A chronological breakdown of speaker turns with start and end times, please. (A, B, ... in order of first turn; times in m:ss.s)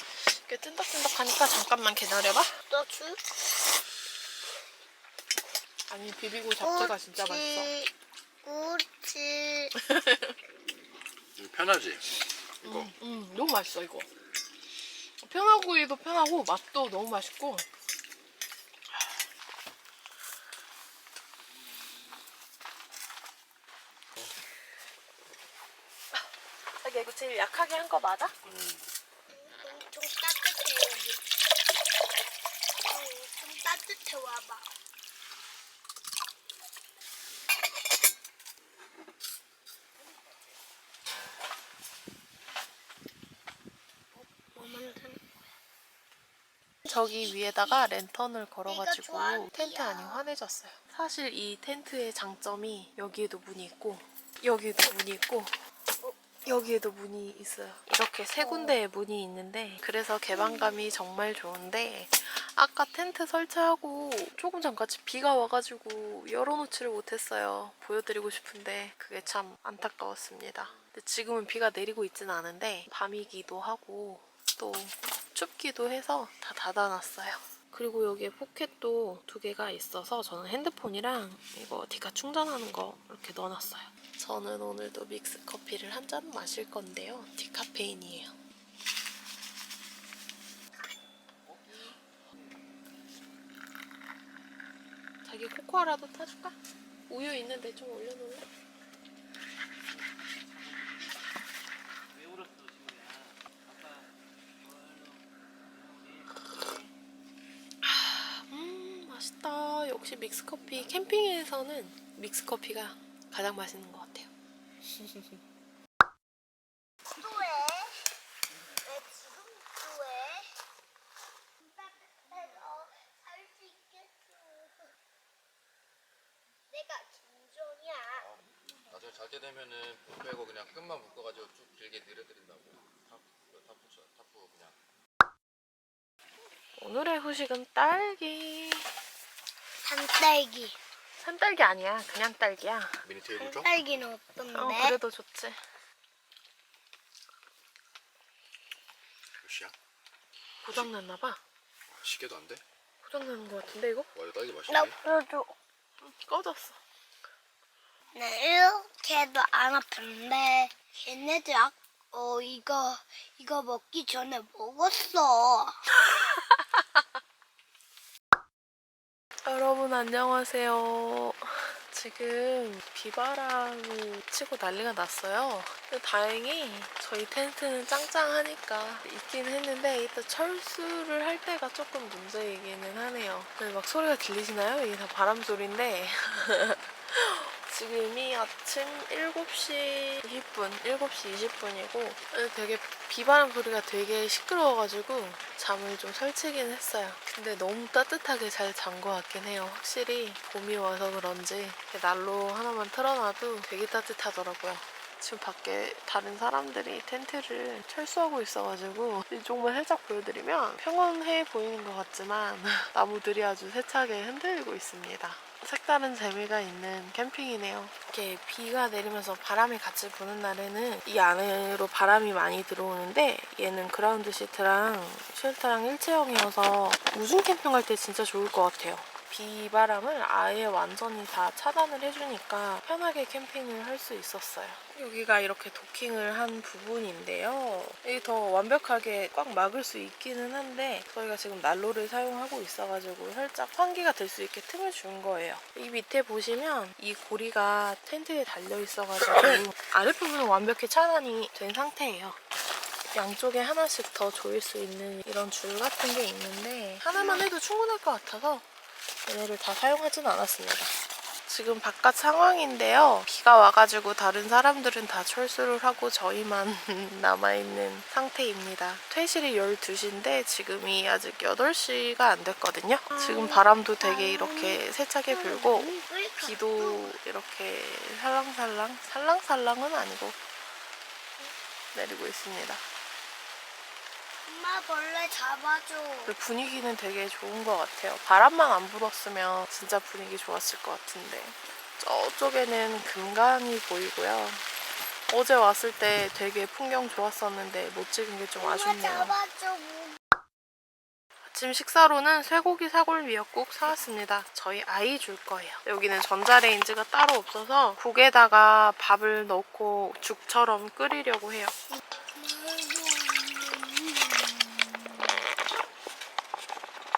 0:00.3-0:02.5 A
0:02.7-0:03.2 B
0:05.9-0:07.7 A
0:06.6-0:07.9 B
0:08.4-0:09.7 B
0:09.8-0:10.3 A
0:11.4-0:12.1 C
0:12.6-0:12.9 C
0:12.6-0:14.1 A
0:15.2-0:17.6 A
0:26.8-0:28.4 A
0:28.4-0:28.9 C
0:29.3-0:31.2 B
0:32.8-0:34.7 B
0:44.2-0:45.2 B
0:46.9-0:55.6 A
0:48.7-0:50.2 B
0:56.0-0:56.4 B
0:56.5-1:28.3 A
0:58.4-0:58.7 B
1:35.3-1:36.6 A
1:37.1-1:38.5 A
1:47.8-1:54.3 A
1:55.0-1:55.4 A
1:57.1-1:58.0 B
1:58.8-2:00.5 B
2:01.6-2:04.9 B
2:06.7-2:08.3 B
2:08.2-2:14.8 C
2:16.8-2:18.9 A
2:19.8-2:20.8 B
2:21.2-2:23.0 A
2:23.0-2:23.7 C
2:23.4-2:25.0 B
2:24.5-2:25.6 A
2:29.4-2:29.7 C
2:30.6-2:31.4 A
2:31.9-2:32.6 C
2:33.0-2:34.1 A
2:34.1-2:35.0 C
2:34.7-2:35.5 B
2:36.0-2:36.8 A
2:38.2-2:45.8 B
2:46.0-2:46.8 A
2:49.5-4:12.4 A
4:13.1-4:18.7 A
4:19.3-4:20.9 A
4:21.5-4:40.4 A
4:33.1-4:34.8 B
4:35.3-4:37.1 B
4:41.9-4:42.8 A
4:44.5-4:46.3 B
4:46.3-4:54.6 A
4:55.3-4:59.4 A
4:58.6-5:00.2 B
5:01.5-5:11.7 A
5:11.9-5:15.3 B